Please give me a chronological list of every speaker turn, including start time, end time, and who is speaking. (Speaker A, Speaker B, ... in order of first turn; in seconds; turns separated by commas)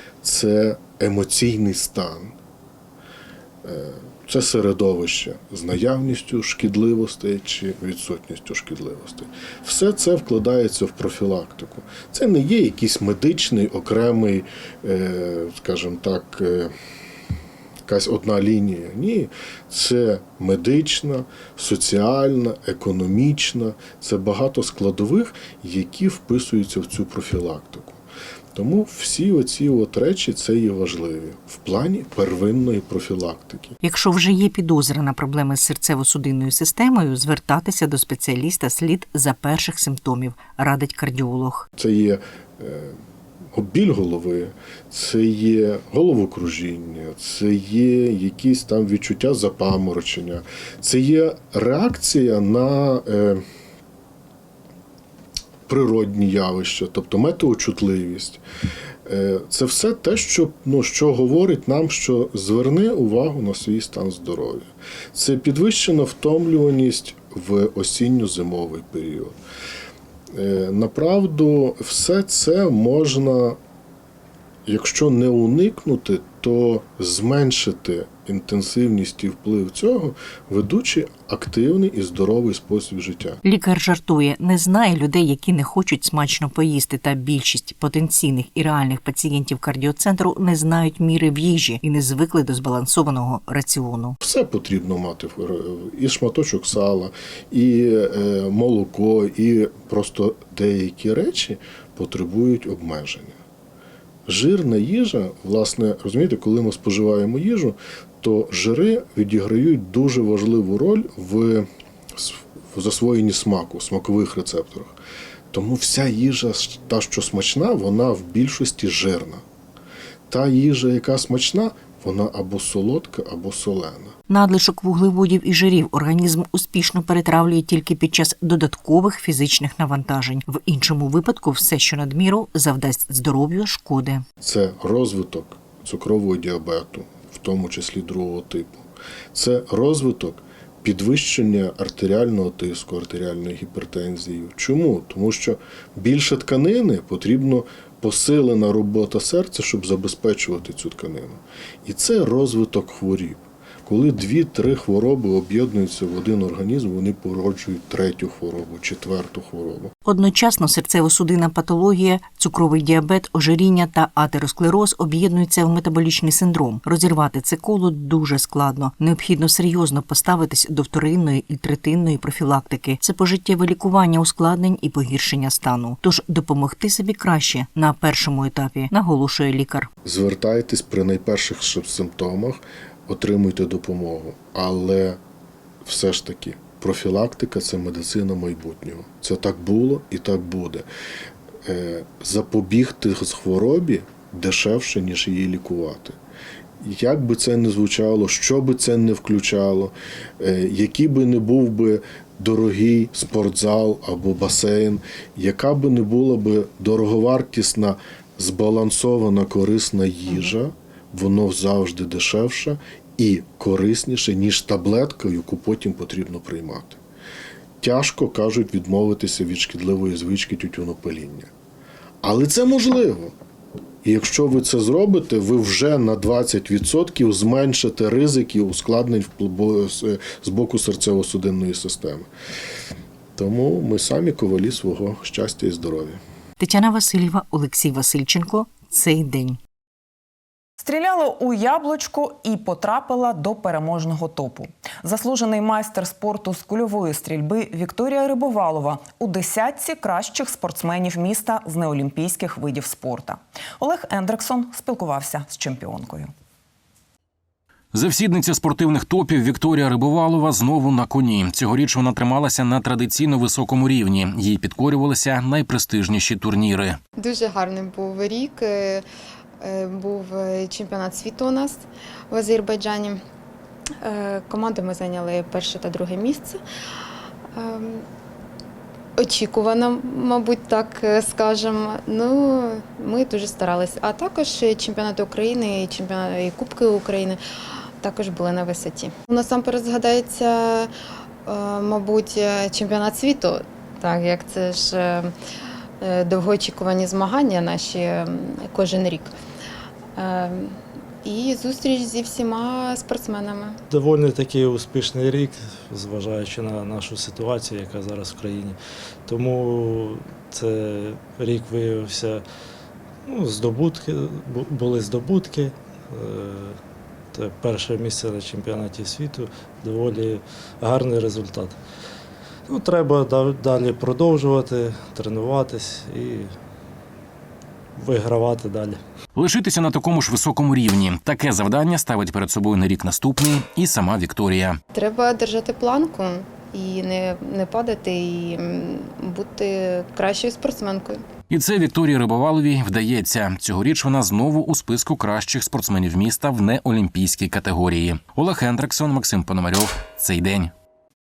Speaker A: 0.2-2.3, Speaker A: 3.6-16.7, Speaker A: 17.9-28.0, Speaker A: 28.5-33.8, Speaker B: 33.8-41.6, Speaker A: 41.8-43.0, Speaker A: 43.5-53.4, Speaker A: 55.7-58.4, Speaker A: 59.1-69.4, Speaker A: 70.3-73.6, Speaker A: 74.7-83.4, Speaker B: 83.4-94.2, Speaker A: 94.2-103.4, Speaker A: 104.3-115.0, Speaker A: 115.5-119.4, Speaker A: 120.3-124.1, Speaker B: 124.3-134.2, Speaker A: 134.4-159.9, Speaker B: 160.1-179.9, Speaker A: 180.0-185.2, Speaker A: 185.8-190.9, Speaker A: 191.7-196.2, Speaker A: 196.8-217.0, Speaker A: 217.8-221.5, Speaker A: 222.2-223.3, Speaker A: 224.0-232.3, Speaker A: 233.4-236.2, Speaker B: 236.6-239.6, Speaker C: 240.8-256.3, Speaker D: 257.9-267.0, Speaker E: 267.2-269.1, Speaker E: 269.6-273.2, Speaker E: 274.0-276.6, Speaker E: 277.5-278.1, Speaker E: 279.2-287.4, Speaker E: 288.0-290.9, Speaker E: 291.4-295.3, Speaker E: 296.0-299.3, Speaker E: 300.2-303.8, Speaker F: 303.9-312.4, Speaker F: 313.3-316.8, Speaker F: 317.3-321.8, Speaker F: 322.7-326.5, Speaker F: 328.0-329.0, Speaker D: 329.4-334.8, Speaker E: 334.9-341.2, Speaker D: 341.5-350.7